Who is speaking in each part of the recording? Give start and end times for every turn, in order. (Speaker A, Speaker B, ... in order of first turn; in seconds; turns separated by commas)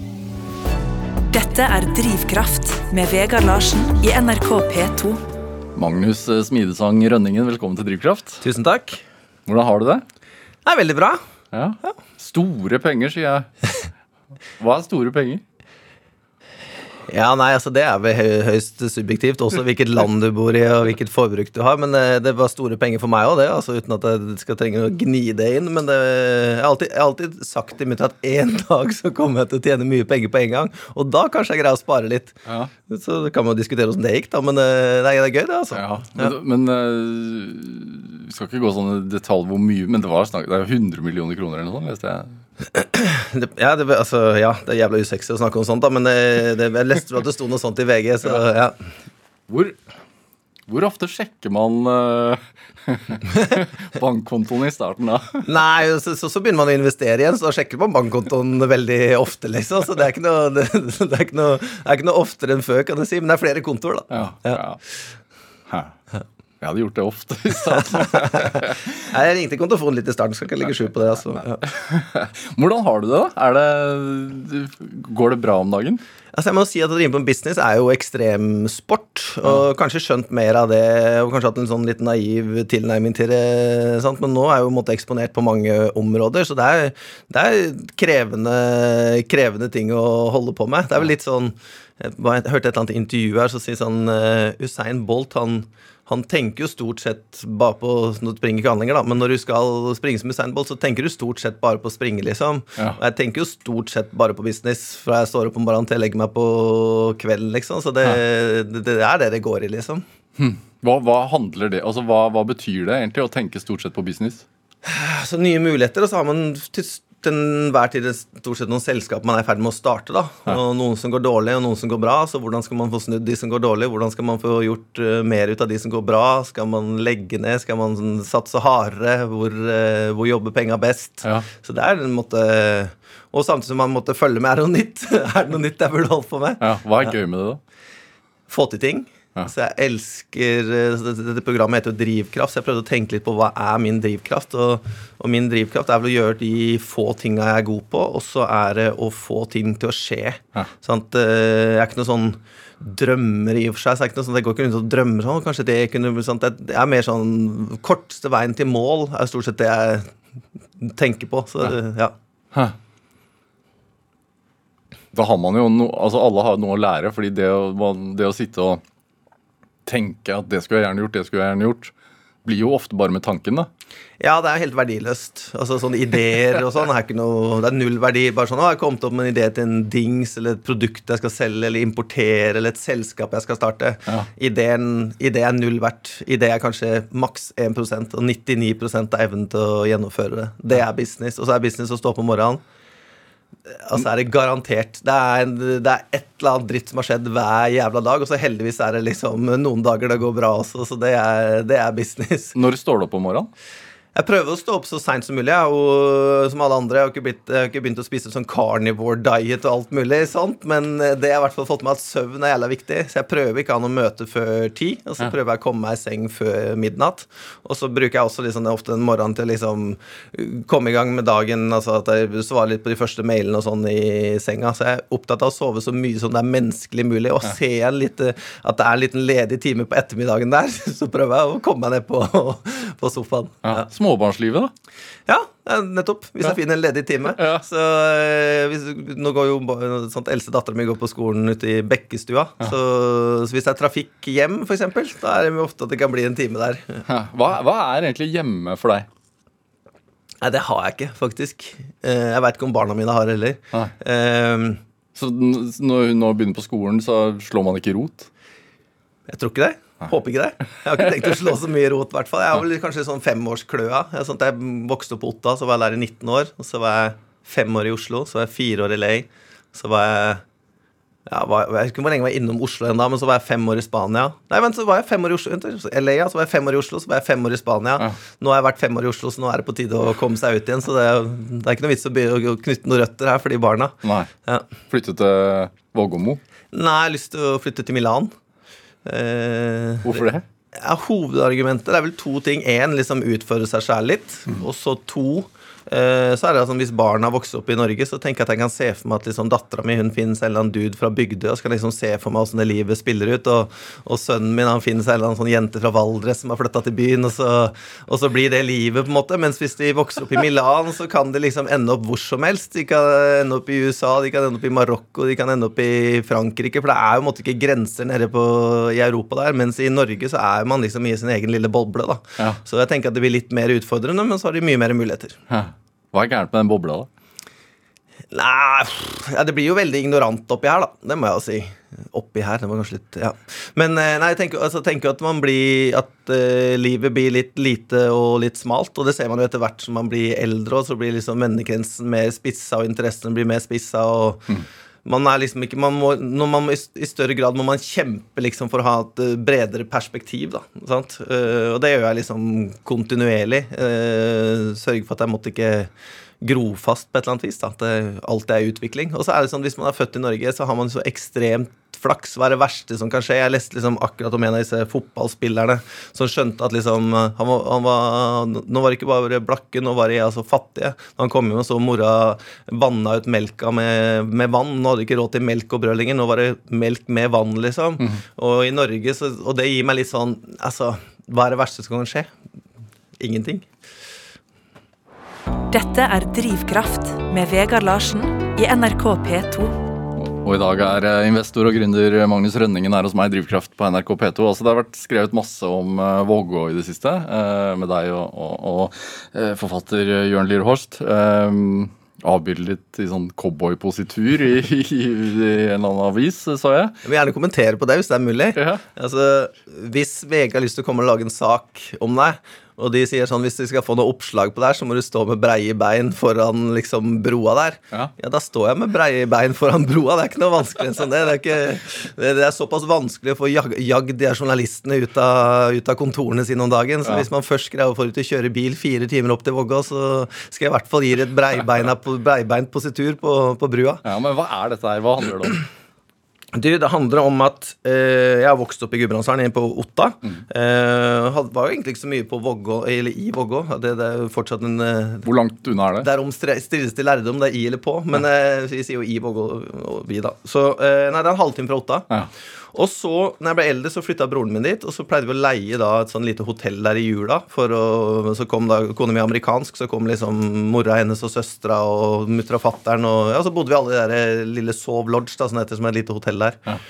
Speaker A: 1.3-5.2, Speaker B: 5.7-8.4, Speaker C: 8.4-9.0, Speaker B: 9.5-10.0, Speaker C: 10.6-11.2, Speaker B: 11.5-13.5, Speaker B: 14.6-15.4, Speaker C: 17.1-32.4, Speaker B: 32.5-32.7, Speaker C: 32.9-36.3, Speaker B: 35.7-42.4, Speaker C: 42.7-48.8, Speaker B: 49.5-49.8, Speaker B: 50.7-55.4, Speaker C: 55.4-64.6, Speaker B: 64.1-64.8, Speaker B: 65.7-66.0, Speaker B: 66.6-68.9, Speaker C: 67.8-71.6, Speaker B: 71.7-76.0, Speaker C: 76.3-110.0, Speaker B: 110.4-114.4, Speaker C: 114.8-137.1, Speaker B: 136.6-137.6, Speaker C: 138.5-160.1, Speaker C: 160.8-162.1, Speaker B: 165.1-168.8, Speaker B: 169.8-171.9, Speaker B: 172.4-173.7, Speaker C: 174.2-192.6, Speaker C: 193.7-202.5, Speaker B: 202.5-203.5, Speaker C: 204.1-233.9, Speaker B: 233.6-234.7, Speaker C: 235.3-247.0, Speaker B: 237.3-237.6, Speaker B: 247.1-249.1, Speaker C: 250.4-254.8, Speaker B: 255.1-258.3, Speaker C: 259.3-270.4, Speaker C: 271.3-284.6, Speaker B: 284.0-284.3, Speaker B: 284.9-286.4, Speaker C: 286.7-288.3, Speaker C: 289.0-325.4, Speaker B: 290.0-290.4, Speaker B: 325.5-327.1, Speaker C: 328.3-344.5, Speaker C: 345.0-355.9, Speaker C: 356.4-382.3, Speaker C: 383.2-383.7, Speaker A: 385.7-389.8, Speaker B: 390.2-407.0, Speaker C: 407.0-434.0, Speaker B: 408.5-408.8, Speaker B: 434.0-435.6, Speaker C: 436.5-445.3, Speaker B: 445.2-446.1, Speaker C: 446.0-452.1, Speaker C: 452.7-466.6